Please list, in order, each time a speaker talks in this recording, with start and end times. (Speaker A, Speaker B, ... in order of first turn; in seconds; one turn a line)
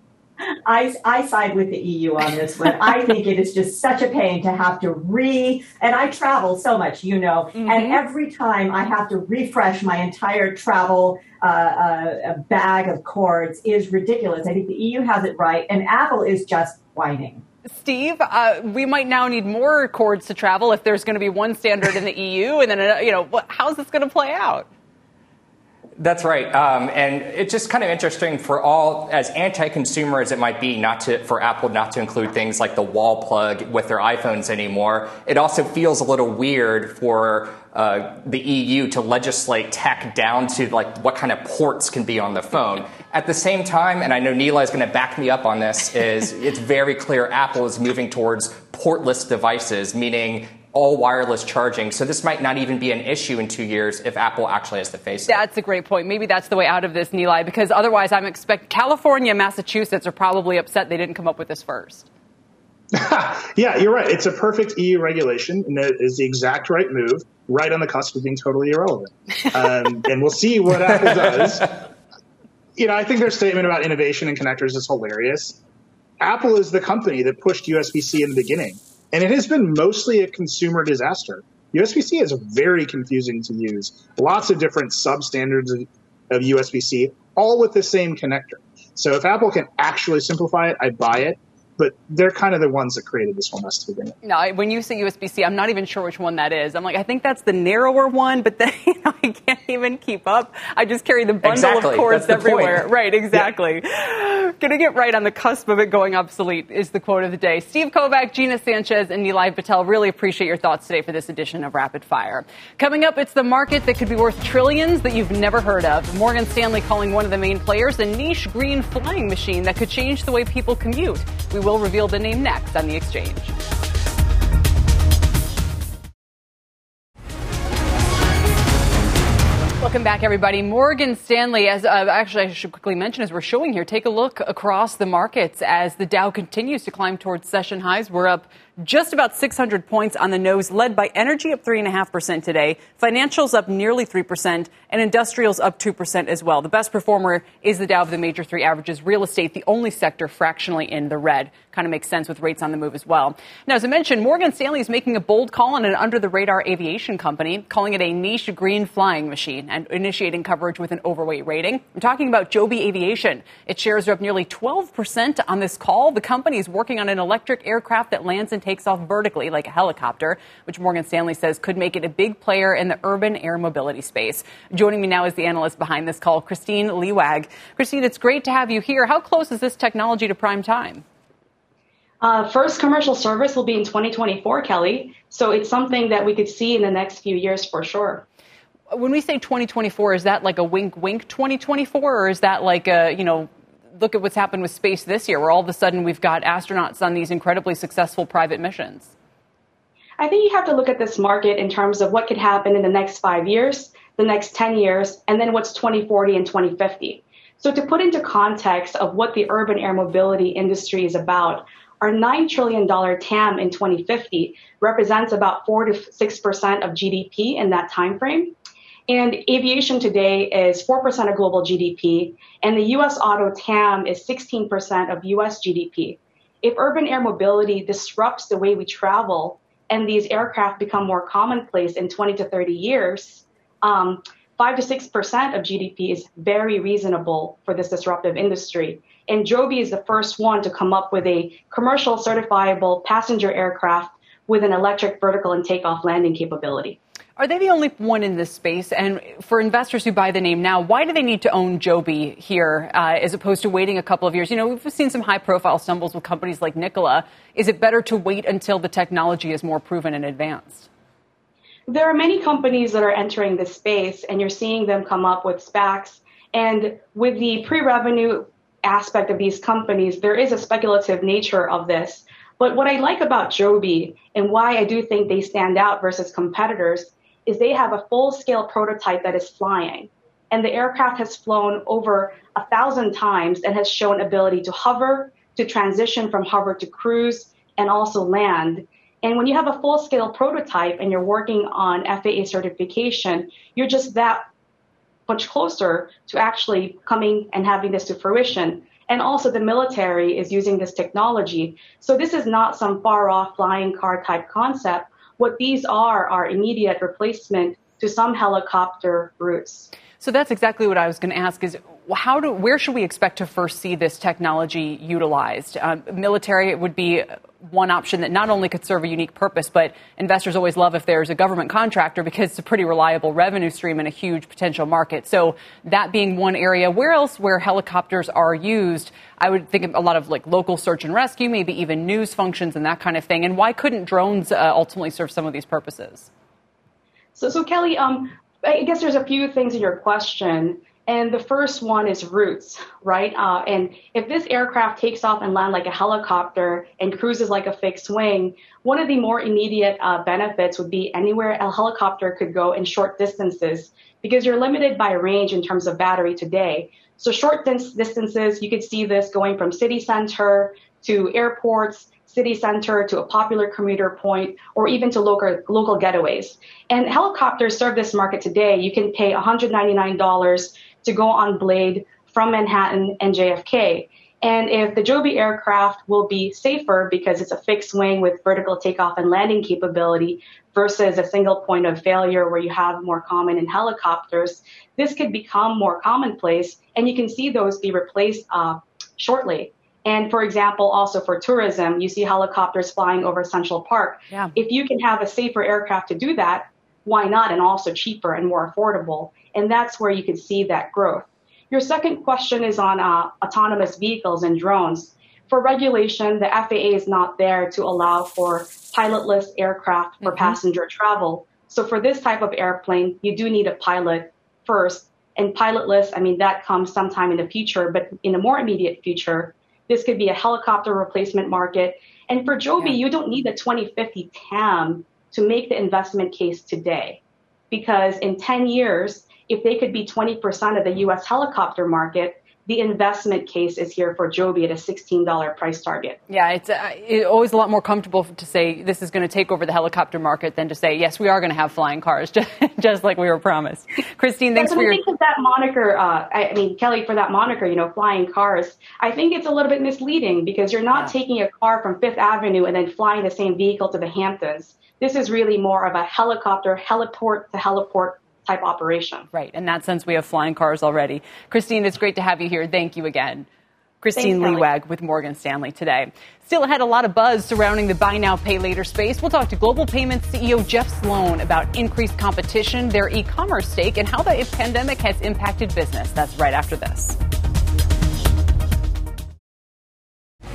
Speaker A: 0.7-17.4
Speaker B: 7.6-8.0
Speaker B: 17.7-24.7
Speaker C: 26.0-55.4
Speaker B: 55.3-62.1
Speaker D: 62.9-71.7
Speaker D: 72.8-75.6
Speaker D: 76.2-94.2
Speaker B: 94.2-123.5
Speaker C: 101.4-103.4
Speaker B: 129.8-181.1
Speaker E: 182.2-188.2
Speaker B: 188.9-199.1
Speaker E: 200.2-218.6
Speaker E: 219.1-247.0
Speaker B: 247.4-260.9
Speaker E: 261.9-294.4
Speaker E: 295.3-309.9
Speaker B: 310.2-336.3
Speaker E: 337.4-427.2
Speaker B: 410.2-410.6
Speaker E: 427.7-436.2
Speaker B: 436.3-445.0
Speaker E: 444.6-459.3
Speaker B: 459.3-463.5
Speaker B: 464.0-477.2
Speaker E: 464.1-464.7